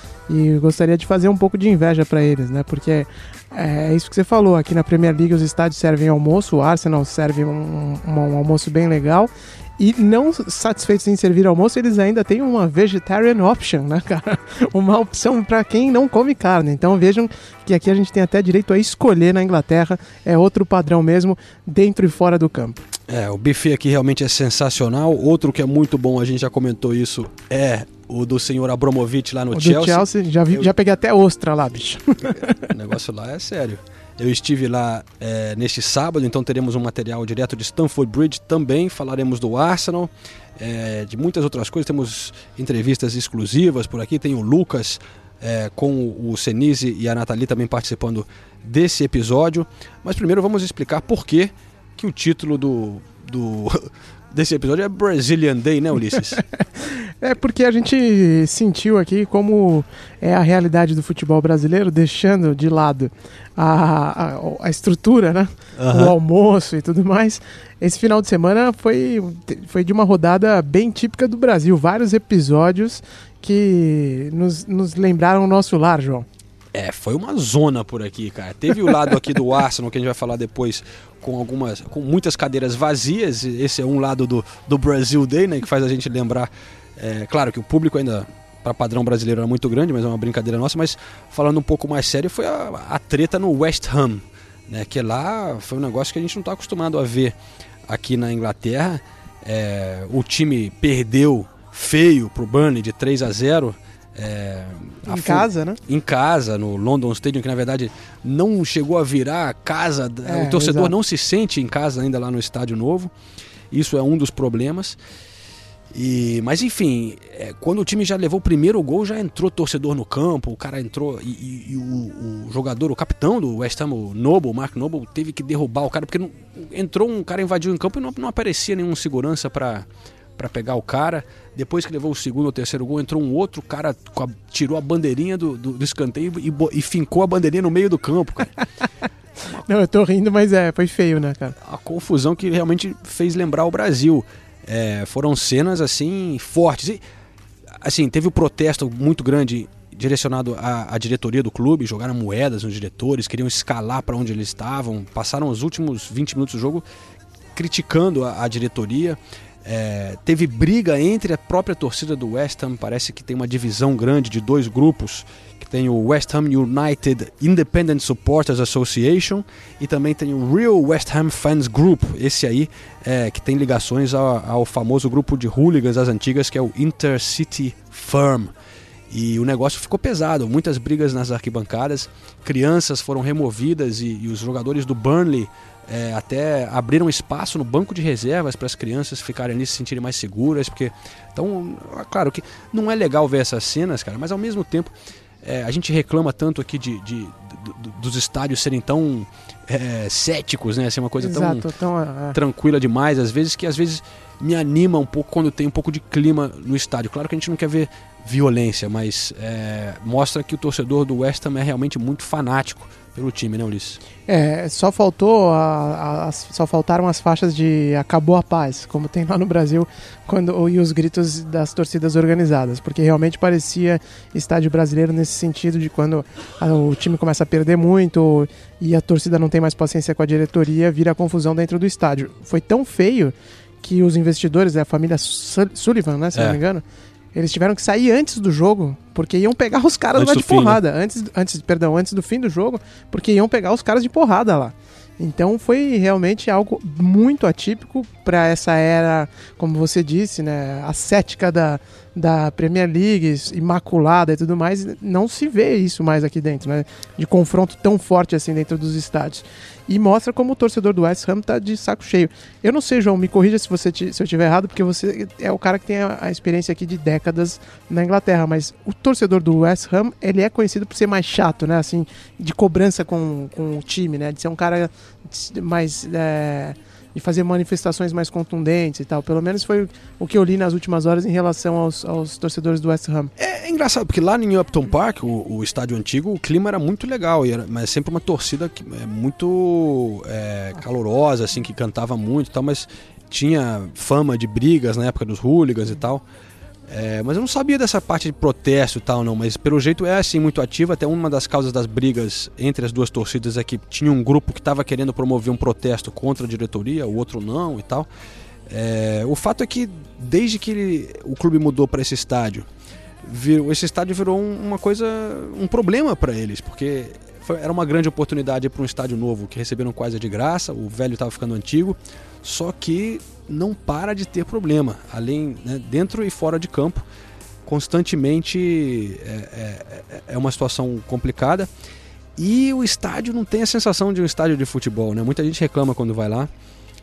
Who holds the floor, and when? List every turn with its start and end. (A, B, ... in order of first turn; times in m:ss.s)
0:00.3-0:22.8 A
0:23.1-0:30.7 B
0:29.5-0:32.6 A
0:32.2-0:56.4 B
0:56.8-1:16.3 A
1:05.8-1:06.2 B
1:16.7-1:37.4 B
1:37.9-1:53.1 B
1:45.1-1:45.8 A
1:50.2-1:50.9 A
1:53.7-1:55.0 B
1:55.9-2:18.6 B
2:19.6-2:21.6 A
2:21.6-2:27.0 B
2:27.8-2:36.8 B
2:37.6-2:58.5 B
2:59.1-3:21.7 B
3:21.2-3:22.4 A
3:22.3-3:34.0 B
3:34.3-3:56.8 A
3:56.3-3:56.6 B
3:57.3-4:43.3 A
4:00.2-4:00.8 B
4:43.4-4:56.2 B
4:56.9-5:08.1 B
5:08.7-5:12.7 B
5:13.2-5:27.0 B
5:27.6-5:31.7 B
5:32.4-5:36.5 B